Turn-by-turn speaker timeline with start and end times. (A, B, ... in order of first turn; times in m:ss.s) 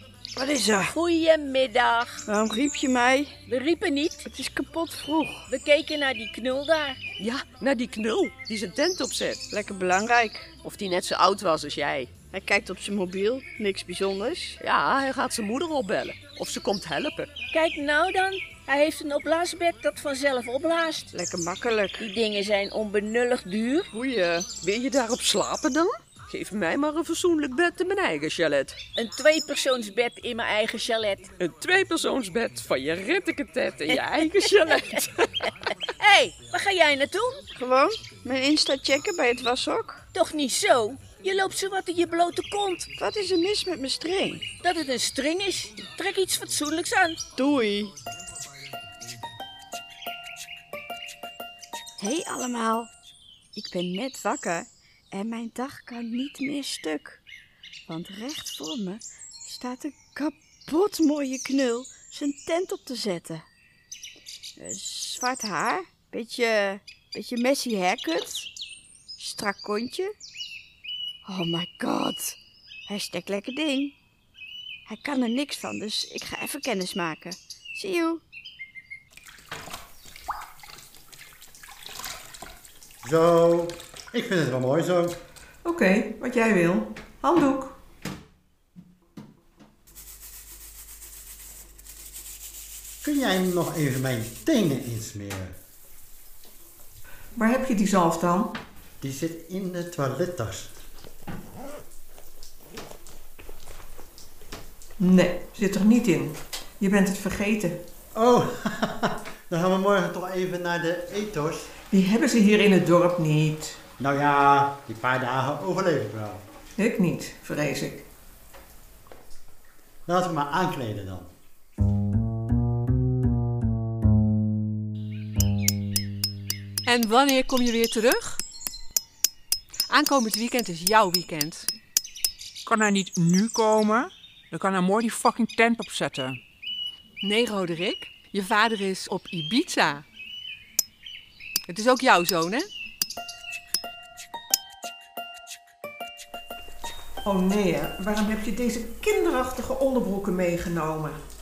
0:00.4-0:01.0 A
0:00.9-0:02.2 B
0:02.3-0:03.4 A
0:03.5-0:04.3 B
0:04.2-0:05.5 A
0:05.5-0:07.0 B
0:07.2-0:09.4 C
0:09.5-0:10.5 A
0:10.6-0:12.1 C
0:12.3-0:14.6 A
0:14.6-0:17.3 C
0:17.5-0:21.1 B
0:21.1-0:22.1 A
0:22.0-0:23.9 B
0:23.9-0:24.5 A
0:24.5-0:28.8 C
0:29.0-0:31.3 B
0:31.4-0:35.5 C
0:36.0-0:37.4 B
0:37.5-0:40.0 A
0:40.1-0:42.9 B
0:42.9-0:44.4 A
0:44.6-0:47.2 B
0:47.4-0:47.9 A
0:52.0-0:52.9 A
0:53.6-0:57.2 A
0:57.9-1:03.4 A
1:04.6-1:08.5 A
1:09.2-1:10.1 A
1:11.2-1:13.9 A
1:14.9-1:18.2 A
1:23.0-1:25.2 D
1:25.6-1:27.8 E
1:33.0-1:35.6 D
1:37.4-1:38.6 E
1:39.0-1:40.7 D
1:45.0-1:47.8 E
1:48.2-1:51.7 D
1:51.9-1:53.8 E
1:54.0-1:56.4 D
1:56.8-1:58.1 E
2:00.1-2:01.3 D
2:06.9-2:08.4 F
2:09.9-2:11.7 F
2:12.6-2:16.4 G
2:17.2-2:20.1 F
2:21.7-2:22.7 F
2:27.2-2:31.2 E